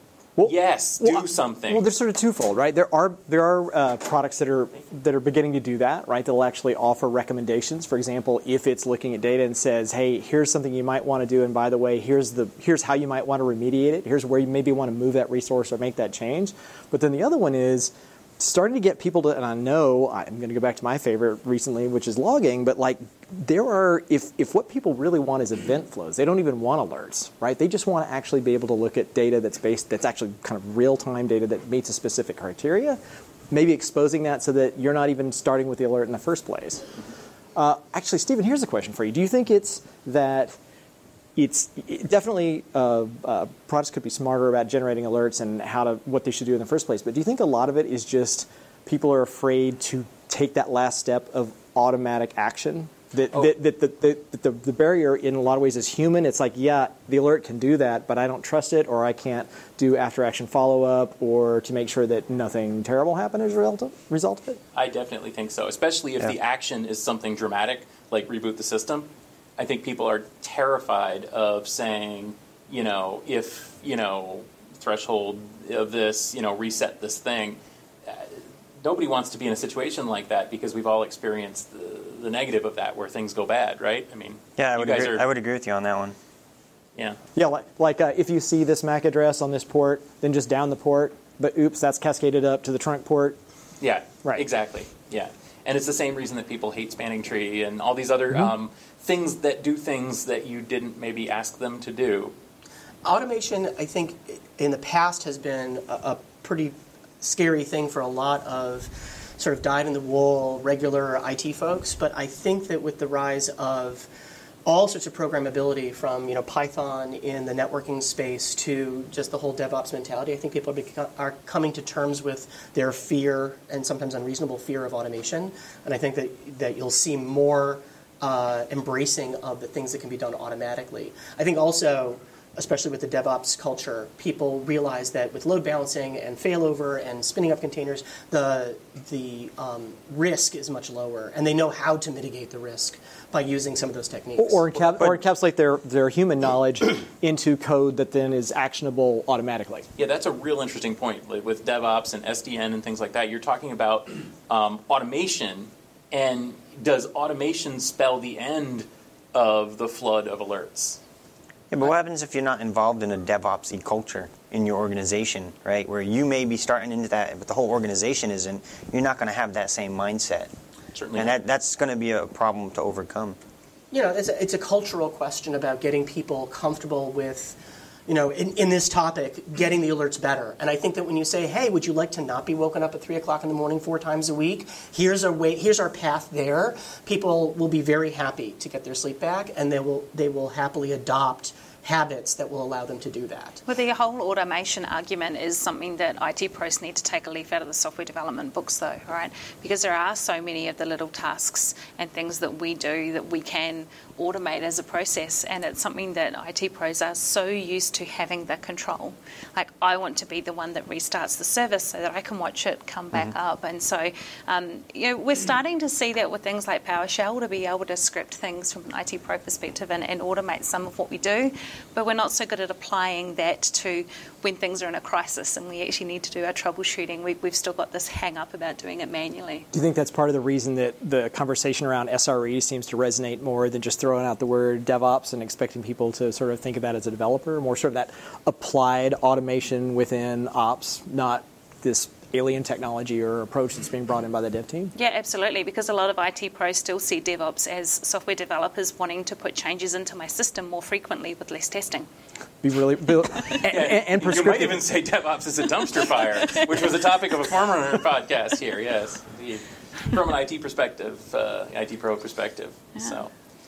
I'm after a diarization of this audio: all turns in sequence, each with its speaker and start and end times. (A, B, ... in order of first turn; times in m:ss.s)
0:00.4-0:33.0 A
0:00.4-0:01.9 B
0:33.5-0:36.9 A
0:37.6-0:40.6 A
0:41.4-1:04.6 A
1:04.7-1:25.2 B
1:24.6-1:26.2 C
1:27.4-1:33.4 A
1:33.8-1:42.3 B
1:43.0-1:54.1 D
1:54.7-2:24.6 D
2:24.4-2:29.9 A
2:24.8-2:25.2 B
2:30.0-2:41.0 B
2:41.7-2:50.5 C
2:51.0-2:51.4 B
2:51.1-2:53.4 C
2:53.9-3:13.6 D
3:13.7-3:49.7 E
3:49.7-4:04.9 A
4:05.0-4:12.1 E
4:12.6-4:14.8 A
4:13.7-4:23.3 B